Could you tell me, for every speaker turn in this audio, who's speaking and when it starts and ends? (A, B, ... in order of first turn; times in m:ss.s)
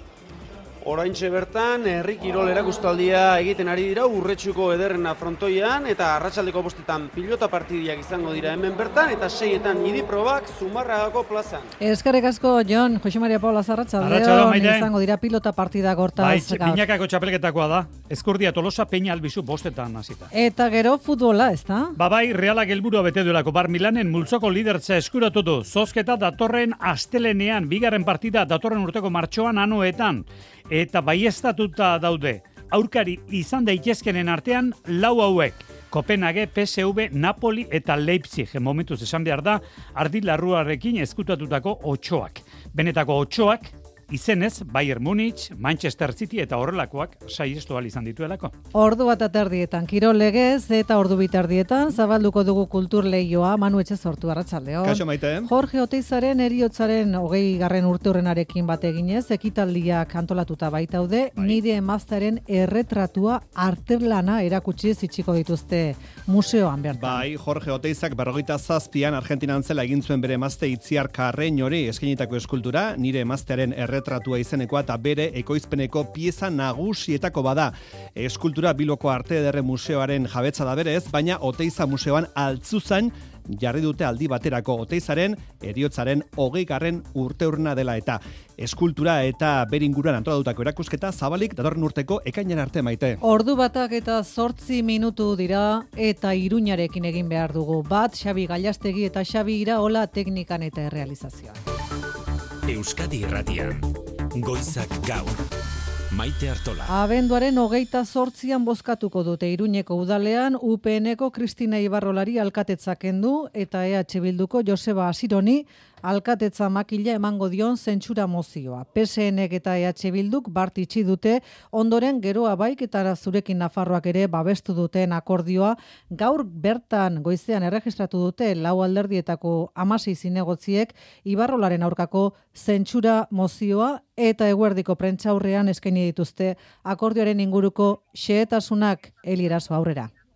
0:00.8-0:11.7 A
0:11.8-0:16.8 B
0:14.0-0:14.9 C
0:16.2-0:20.3 C
0:20.3-0:22.0 B
0:22.0-0:48.5 C
0:48.7-1:07.3 B
0:54.8-0:55.5 D
1:07.0-1:33.2 D
1:33.2-1:41.6 B
1:42.7-1:45.4 E
1:46.1-1:46.9 E
1:46.9-2:20.1 B